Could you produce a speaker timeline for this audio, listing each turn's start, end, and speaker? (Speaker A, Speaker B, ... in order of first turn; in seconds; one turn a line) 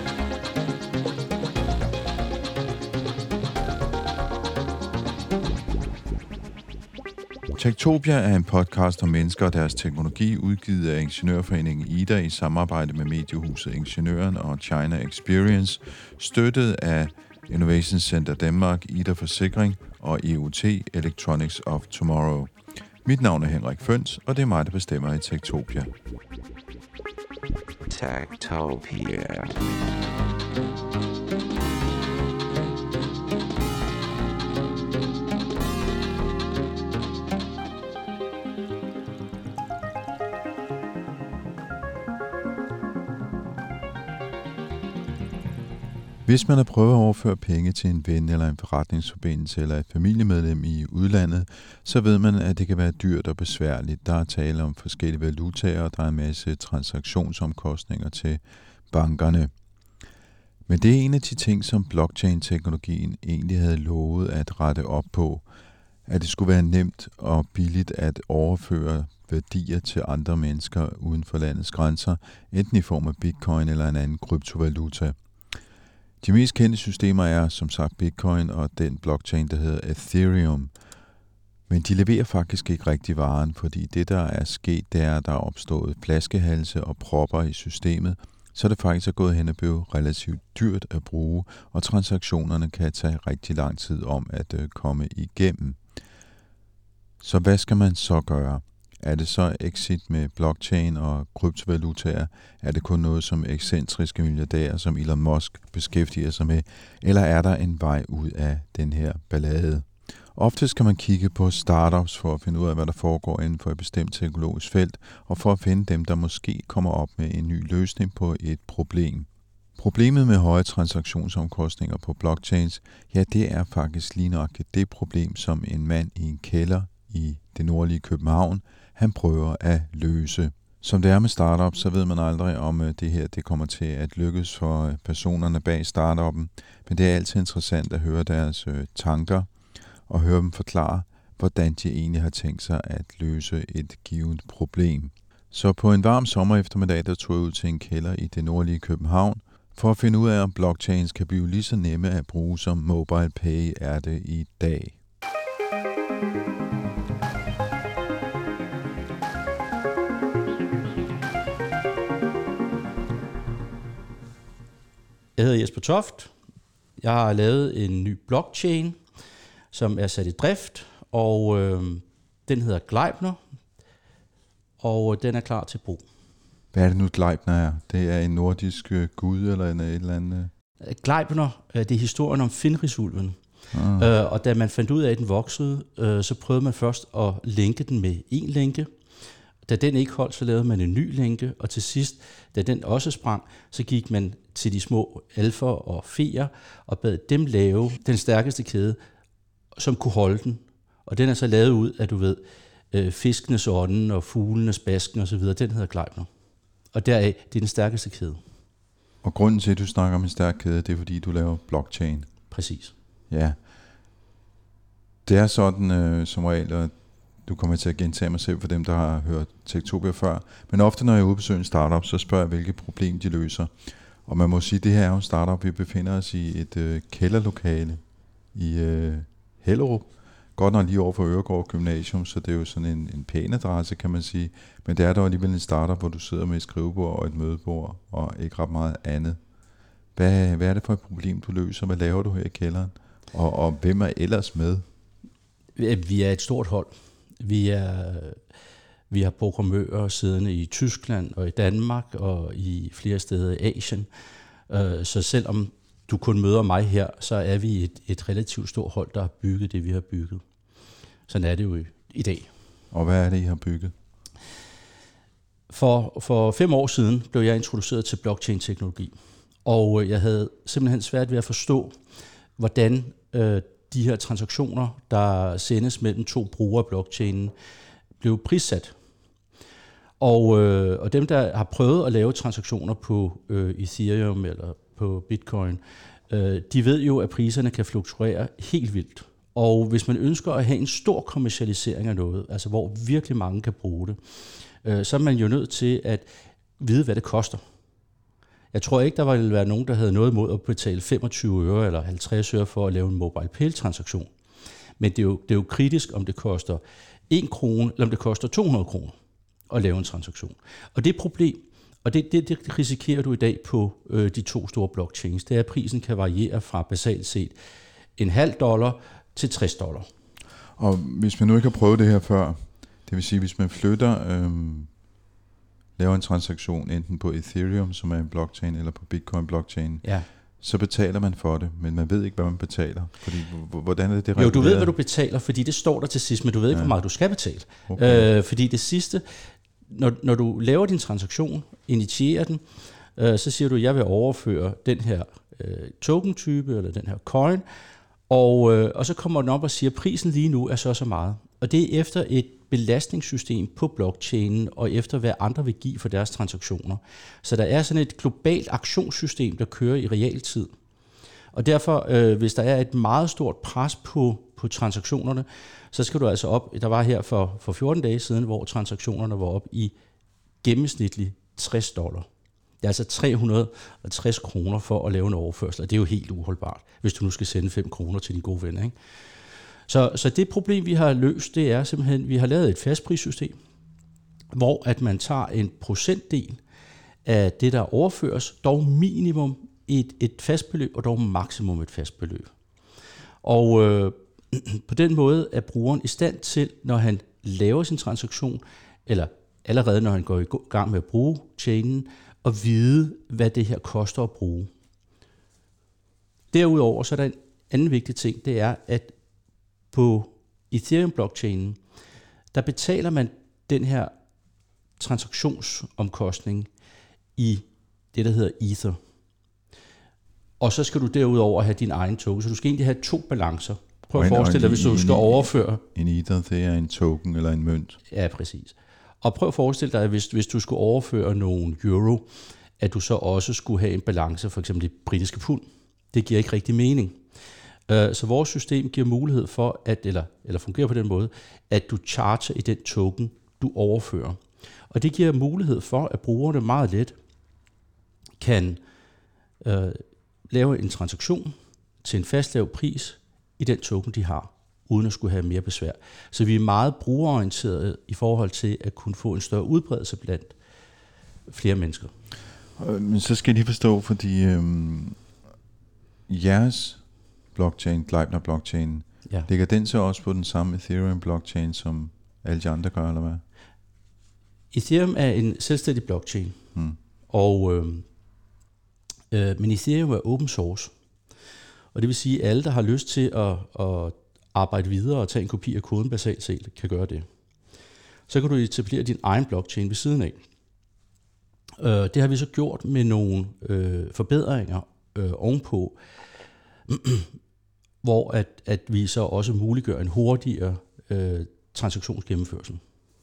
Speaker A: 7.5-25.9
Speaker B: 27.9-30.1
Speaker A: 46.2-59.5
Speaker A: 60.7-65.5
Speaker A: 66.1-75.2
Speaker A: 76.2-80.7
Speaker A: 81.7-95.8
Speaker A: 97.2-155.0
Speaker C: 165.4-166.3
Speaker C: 167.0-169.0
Speaker C: 169.7-173.4
Speaker C: 174.8-176.1
Speaker A: 176.7-180.5
Speaker C: 180.8-183.4
Speaker A: 183.7-184.1
Speaker C: 183.9-188.9
Speaker C: 189.7-199.0
Speaker C: 199.8-206.3
Speaker C: 206.9-208.4
Speaker A: 209.2-212.4
Speaker C: 212.5-212.9
Speaker A: 213.3-213.6
Speaker A: 215.3-239.4
Speaker A: 240.2-244.8
Speaker C: 245.8-248.4
Speaker C: 249.1-254.1
Speaker C: 254.7-260.4
Speaker C: 261.3-262.5
Speaker A: 262.9-263.9
Speaker C: 265.7-269.1
Speaker C: 269.6-271.9
Speaker C: 272.6-277.5
Speaker C: 278.2-278.9
Speaker C: 280.2-294.2
Speaker C: 294.8-297.6
Speaker C: 298.7-304.3
Speaker C: 305.0-309.1
Speaker C: 309.7-317.6
Speaker C: 318.2-320.1
Speaker A: 320.8-324.9
Speaker A: 326.0-334.9
Speaker C: 334.4-342.6
Speaker A: 337.9-338.3
Speaker C: 343.1-347.6
Speaker C: 348.3-360.7
Speaker C: 361.5-369.9
Speaker C: 370.6-372.3
Speaker C: 372.8-378.9
Speaker C: 379.9-383.6
Speaker C: 384.5-386.6
Speaker C: 387.2-392.5
Speaker C: 393.4-404.7
Speaker C: 406.5-409.1
Speaker C: 409.9-411.8
Speaker C: 412.5-414.1
Speaker C: 415.0-416.7
Speaker C: 417.4-419.0
Speaker C: 420.6-425.8
Speaker A: 424.1-428.0
Speaker C: 428.1-432.3
Speaker C: 432.8-437.2
Speaker C: 437.9-444.4
Speaker C: 444.9-447.1
Speaker C: 448.4-448.8
Speaker C: 449.6-460.6
Speaker C: 461.5-462.1
Speaker A: 462.8-465.2
Speaker A: 466.3-473.4
Speaker C: 474.7-476.6
Speaker C: 477.3-478.1
Speaker C: 479.3-480.9
Speaker C: 481.9-487.3
Speaker C: 488.3-490.4
Speaker C: 491.8-496.0
Speaker C: 496.9-497.3
Speaker C: 498.0-502.8